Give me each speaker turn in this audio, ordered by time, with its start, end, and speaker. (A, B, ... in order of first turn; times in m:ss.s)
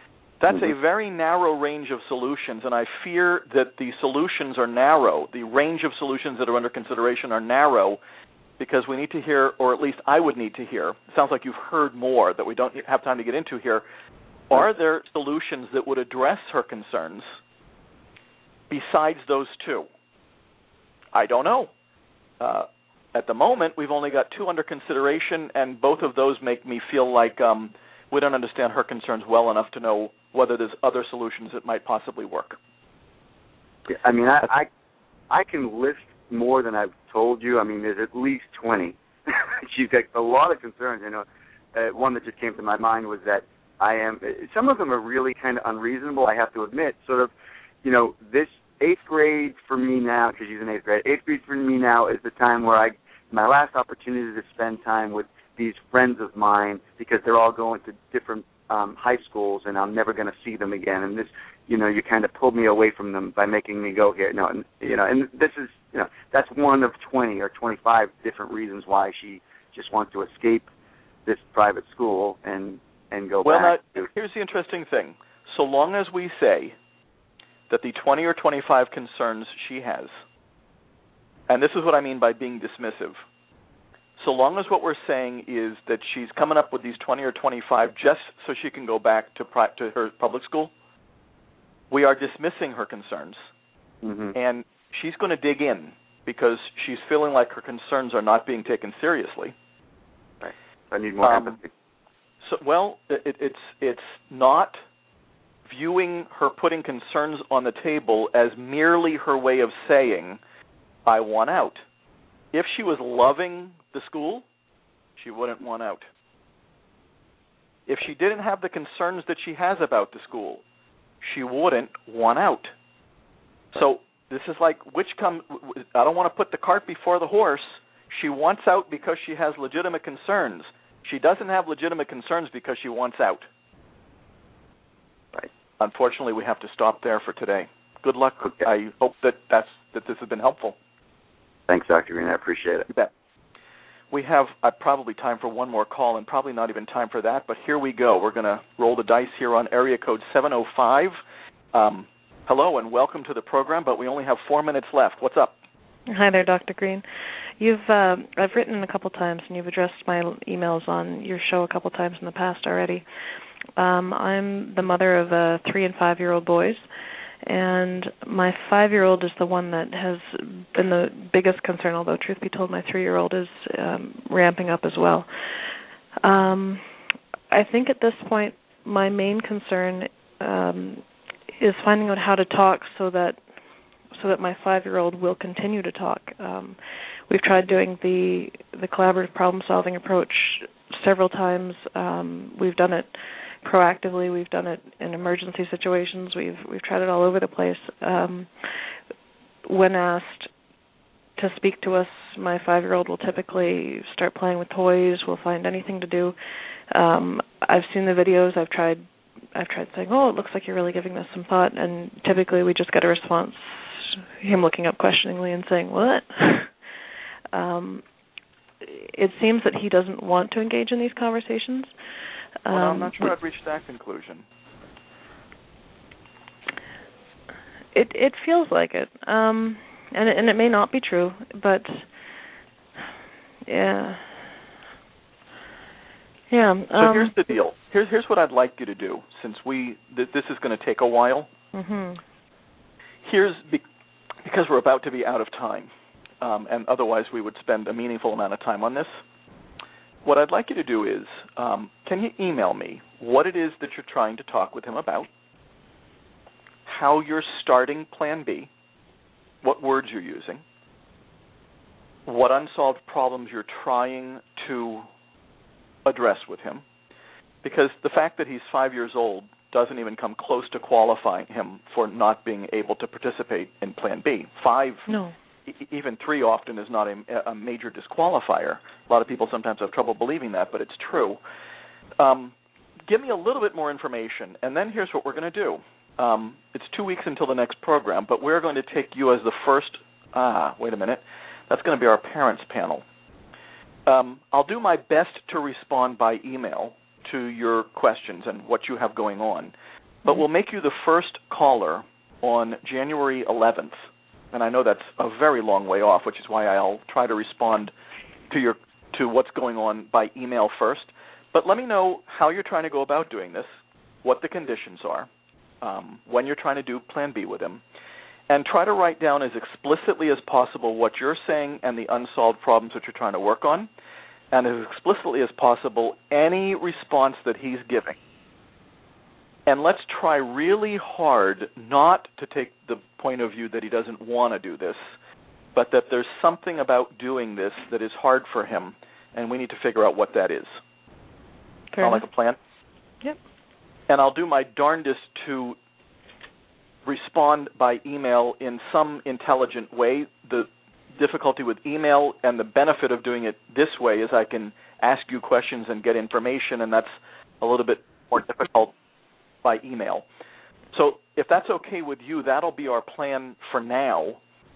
0:00.4-0:08.0 A
0:08.6-0:13.8 A
0:14.5-0:17.3 A
0:18.7-0:19.9 A
0:21.1-0:21.7 A
0:22.4-0:32.6 A
0:33.9-0:34.7 B
0:35.3-0:47.3 B
0:47.8-1:10.7 B
1:11.2-1:14.1 B
1:13.4-1:16.8 A
1:17.7-1:20.1 A
1:21.5-1:23.2 A
1:24.2-1:30.7 A
1:31.9-1:33.4 A
1:34.0-1:34.3 B
1:34.3-1:39.5 A
1:40.4-1:41.7 B
1:41.2-1:41.6 A
1:42.4-1:44.8 A
1:45.6-1:50.4 A
1:51.0-1:51.8 A
1:52.5-1:54.4 A
1:55.2-1:56.1 A
1:57.9-2:00.6 A
2:01.2-2:02.7 A
2:03.7-2:13.5 A
2:15.8-2:20.8 A
2:21.7-2:22.9 B
2:24.1-2:31.1 A
2:31.7-2:35.5 A
2:36.1-2:37.0 C
2:37.6-2:43.0 C
2:43.8-2:46.8 C
2:47.4-2:56.8 C
2:57.5-3:01.0 C
3:01.6-3:03.4 C
3:04.1-3:18.9 C
3:19.6-3:20.5 C
3:21.4-3:26.4 C
3:26.9-3:36.7 C
3:37.5-3:38.0 C
3:38.8-3:42.0 C
3:42.6-3:43.3 C
3:42.7-3:44.4 A
3:47.9-3:52.1 C
3:53.6-3:54.5 C
3:56.5-3:57.3 C
3:56.9-4:01.5 A
4:01.7-4:02.2 C
4:03.2-4:03.8 A
4:04.4-4:05.9 A
4:06.4-4:09.2 A
4:10.2-4:15.3 A
4:16.8-4:18.7 A
4:19.6-4:20.6 A
4:22.2-4:25.1 A
4:26.0-4:26.8 A
4:27.6-4:35.0 A
4:35.1-4:35.3 C
4:35.6-4:41.4 A
4:42.2-4:42.5 A
4:43.1-4:53.0 A
4:54.0-4:59.7 A
5:00.2-5:03.9 A
5:04.5-5:07.9 A
5:08.5-5:13.7 A
5:14.2-5:15.3 A
5:15.8-5:17.8 A
5:18.5-5:23.9 A
5:24.5-5:28.2 A
5:29.7-5:35.0 A
5:35.7-5:40.7 A
5:41.9-5:42.2 C
5:42.0-5:42.6 A
5:44.1-5:45.8 A
5:47.0-5:57.1 A
5:57.6-5:58.9 A
5:59.6-6:00.2 A
6:00.9-6:04.4 A